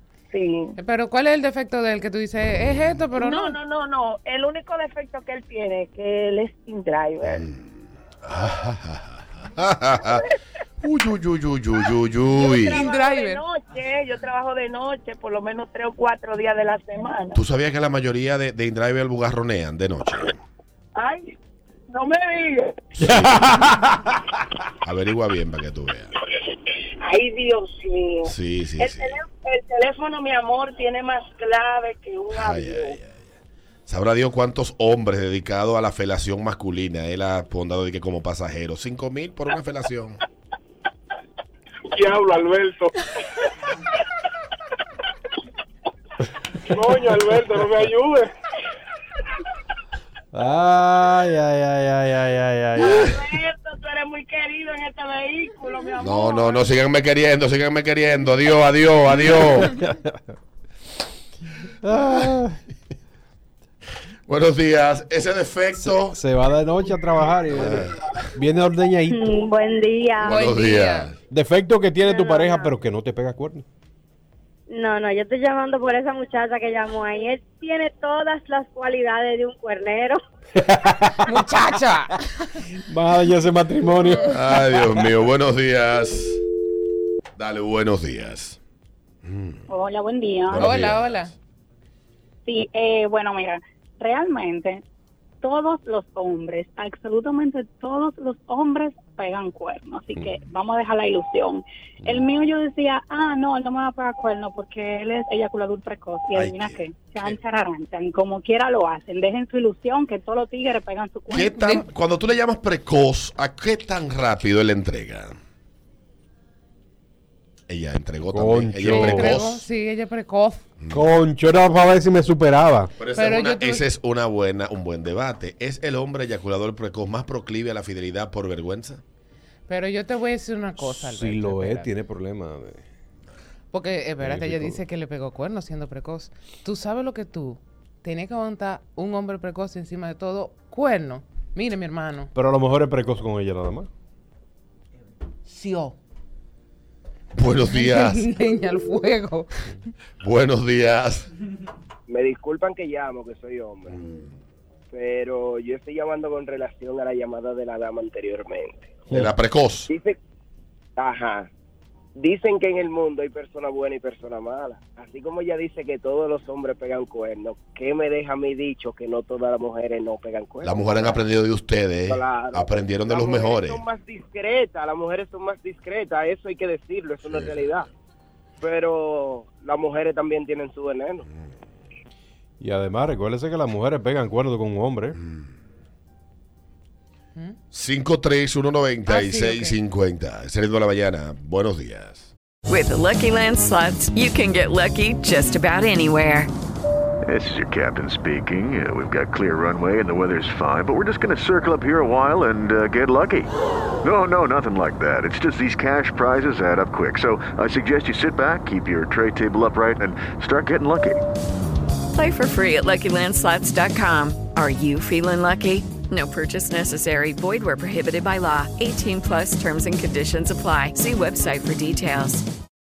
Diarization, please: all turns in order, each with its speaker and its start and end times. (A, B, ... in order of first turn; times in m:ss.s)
0:00.3-0:00.7 A
0:00.8-0:03.6 B
0:03.2-0:07.4 A
0:07.2-0:10.2 C
0:10.8-0:12.9 C
0:12.4-0:17.3 A
0:12.7-0:13.4 B
0:17.3-0:20.4 C
0:22.1-0:22.6 A
0:23.0-0:24.0 D
0:23.0-0:23.5 C
0:24.8-0:26.1 C
0:27.0-0:28.2 A
0:28.2-0:29.2 C
0:28.8-0:33.0 A
0:32.3-0:33.4 C
0:33.9-0:40.2 C
0:41.9-0:42.9 E
0:46.7-0:48.3 E
0:50.3-0:53.2 D
0:53.0-0:56.3 A
0:56.0-0:59.7 C
0:59.1-1:00.2 D
1:01.8-1:02.6 D
1:04.3-1:06.2 C
1:05.8-1:09.4 D
1:07.5-1:08.0 C
1:09.1-1:10.4 F
1:10.2-1:11.2 C
1:10.2-1:11.1 B
1:11.3-1:13.6 D
1:12.0-1:12.7 F
1:14.7-1:20.2 F
1:20.6-1:21.4 D
1:21.3-1:22.6 B
1:22.9-1:24.9 D
1:24.2-1:26.4 C
1:27.4-1:28.6 C
1:29.2-1:29.7 C
1:29.7-1:30.7 G
1:30.5-1:31.3 C
1:30.6-1:31.3 B
1:32.5-1:34.8 G
1:35.4-1:51.5 G
1:46.4-1:47.3 C
1:51.3-1:55.4 C
1:51.4-1:51.8 B
1:57.7-1:59.7 C
1:58.3-1:59.4 D
1:58.8-2:00.7 B
2:00.8-2:01.0 C
2:00.9-2:02.9 D
2:03.0-2:09.0 C
2:03.1-2:03.8 B
2:09.7-2:11.9 B
2:10.8-2:12.9 D
2:13.7-2:22.3 B
2:14.2-2:14.8 D
2:22.4-2:23.9 D
2:25.5-2:26.0 B
2:27.3-2:28.3 C
2:27.7-2:29.5 B
2:30.2-2:31.3 C
2:32.1-2:34.0 H
2:33.9-2:34.3 C
2:34.9-2:39.0 H
2:39.1-2:39.9 C
2:39.9-2:40.2 H
2:41.0-2:41.5 H
2:42.2-2:51.2 H
2:50.6-2:53.8 C
2:52.1-2:57.9 H
2:57.2-2:57.8 C
2:58.6-3:01.3 H
3:02.6-3:05.2 D
3:05.2-3:05.5 C
3:07.7-3:12.3 C
3:09.1-3:09.8 B
3:12.7-3:16.5 I
3:17.2-3:31.2 J
3:32.1-3:42.4 I